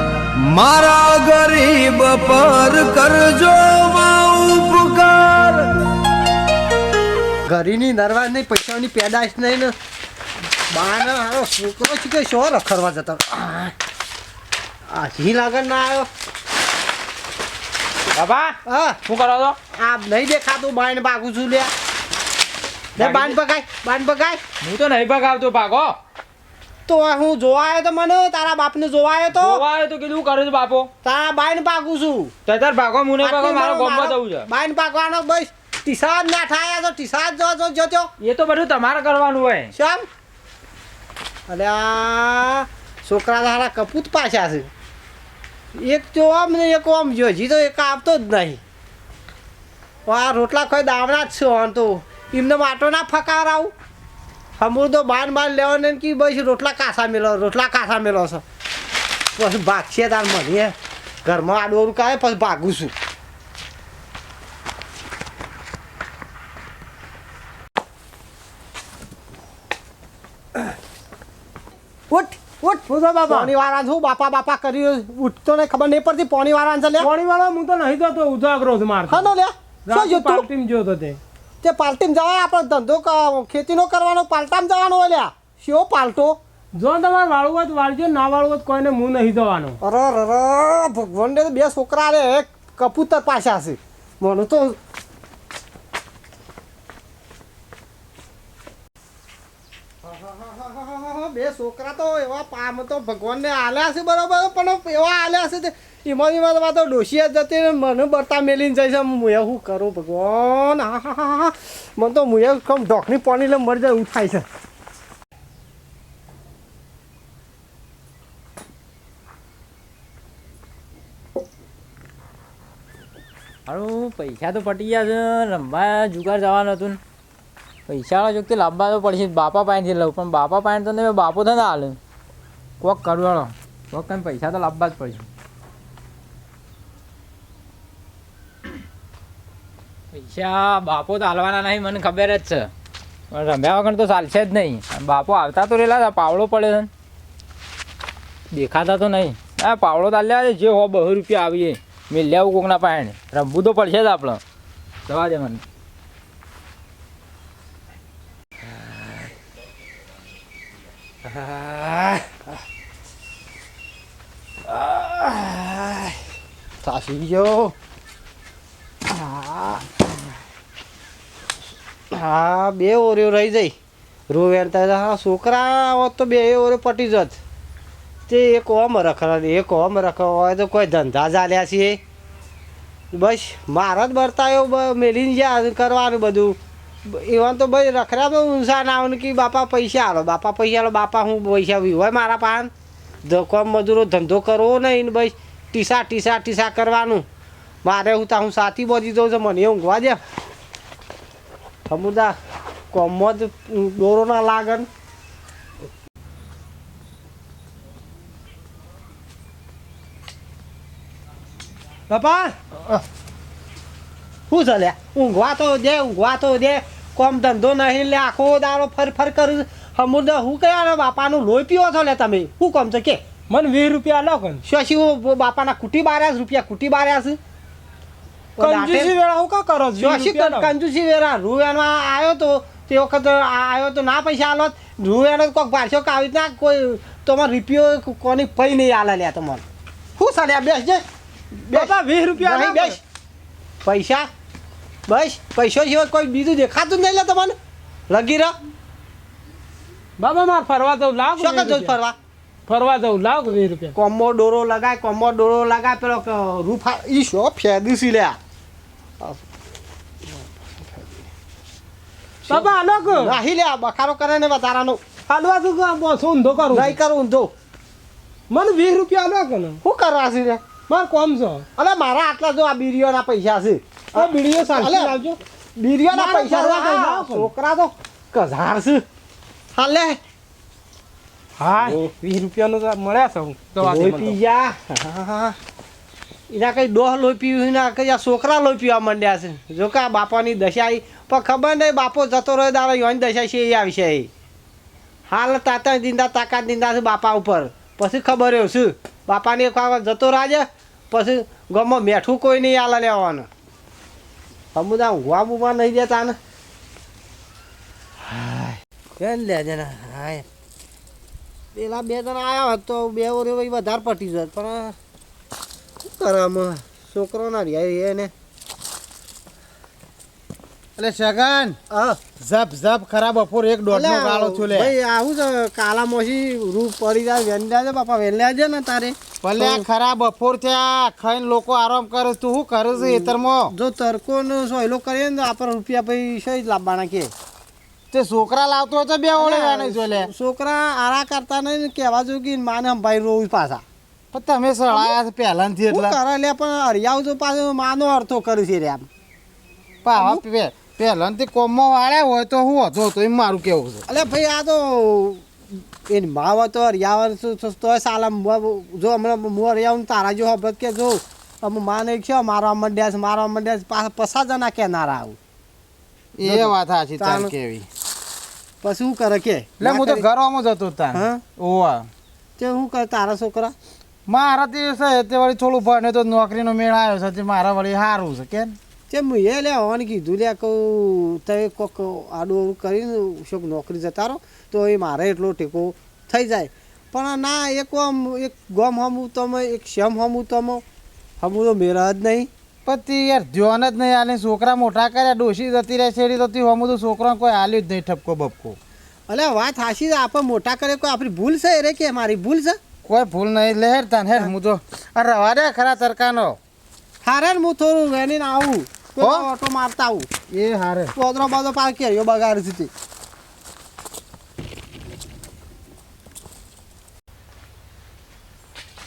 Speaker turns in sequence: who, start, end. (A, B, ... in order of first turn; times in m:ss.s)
0:00.5-0:05.6 A
0:07.5-0:09.7 B
0:10.7-0:13.7 B
0:14.9-0:16.1 B
0:18.2-0:19.6 C
0:18.7-0:19.0 B
0:19.8-0:21.7 B
0:23.0-0:23.4 C
0:23.0-0:24.4 B
0:24.6-0:26.0 C
0:26.9-0:29.6 B
0:29.3-0:30.9 C
0:31.0-0:32.3 B
0:32.4-0:34.5 C
0:33.2-0:38.1 B
0:38.2-0:39.7 C
0:39.8-0:40.0 B
0:41.5-0:44.7 B
0:45.8-0:48.6 B
0:50.0-0:53.7 B
0:54.6-0:58.4 B
0:59.4-1:02.9 B
1:12.1-1:17.1 B
1:12.9-1:13.5 D
1:17.0-1:19.3 D
1:19.1-1:20.5 B
1:19.8-1:21.2 D
1:21.6-1:26.4 B
1:26.7-1:29.8 D
1:29.8-1:34.8 B
1:40.0-1:54.4 B
2:03.7-2:07.0 C
2:07.9-2:12.0 C
2:12.8-2:15.3 C
2:20.1-2:22.7 C
2:23.3-2:26.9 C
2:28.5-2:34.4 C
2:35.1-2:35.6 C
2:41.3-2:42.4 B
2:44.7-2:46.0 B
2:46.8-2:47.8 B
2:49.1-2:49.9 B
2:52.1-2:53.7 B
2:54.3-2:57.4 B
2:58.3-3:02.0 B
3:03.1-3:12.7 B
3:13.2-3:17.2 B
3:17.8-3:20.2 B
3:21.9-3:22.3 B
3:22.9-3:24.9 B
3:32.1-3:32.6 D
3:34.5-3:43.2 B
3:43.5-3:44.6 D
3:44.7-3:47.4 B
3:48.6-3:49.1 B
3:48.6-3:50.7 D
3:50.0-3:59.6 B
4:00.2-4:01.0 B
4:01.7-4:03.0 B
4:01.7-4:03.0 D
4:03.8-4:04.3 B
4:05.1-4:07.5 B
4:08.1-4:08.5 B
4:10.2-4:12.0 D
4:11.4-4:12.2 B
4:12.7-4:13.9 D
4:13.9-4:18.4 B
4:22.5-4:23.4 D
4:22.5-4:25.0 B
4:25.3-4:27.0 D
4:26.7-4:27.5 B
4:28.5-4:29.8 D
4:29.8-4:30.6 B
4:30.9-4:31.7 D
4:31.8-4:35.2 B
4:34.1-4:35.4 D
4:35.8-4:39.0 B
4:36.1-4:37.5 D
4:39.8-4:40.2 B
4:41.6-4:44.4 D
4:43.8-4:45.6 B
4:46.5-4:54.3 B
4:55.3-5:03.5 B
5:04.7-5:06.4 B
5:08.4-5:10.4 B
5:11.7-5:15.0 B
5:16.0-5:18.3 B
5:21.0-5:21.8 E
5:21.9-5:22.2 B
5:22.4-5:24.9 E
5:23.9-5:29.9 B
5:29.4-5:33.7 E
5:33.0-5:37.3 B
5:38.1-5:40.3 E
5:39.3-5:43.8 B
5:44.3-5:46.2 E
5:44.9-5:45.2 B
5:45.9-5:49.1 B
5:50.0-5:54.0 E
5:50.1-5:50.4 B
5:54.1-5:55.5 B
5:56.1-6:05.4 B
6:06.4-6:07.9 E
6:06.4-6:07.5 B
6:08.8-6:10.2 B
6:09.8-6:12.1 E
6:11.1-6:11.4 B
6:12.6-6:13.8 B
6:14.3-6:18.8 E
6:19.1-6:30.8 B
6:31.4-6:32.5 B
6:32.9-6:38.8 E
6:39.3-6:42.8 B
6:43.0-6:46.6 E
6:47.2-6:50.3 B
6:49.2-6:49.5 E
6:50.5-6:51.1 E
6:51.1-6:52.9 B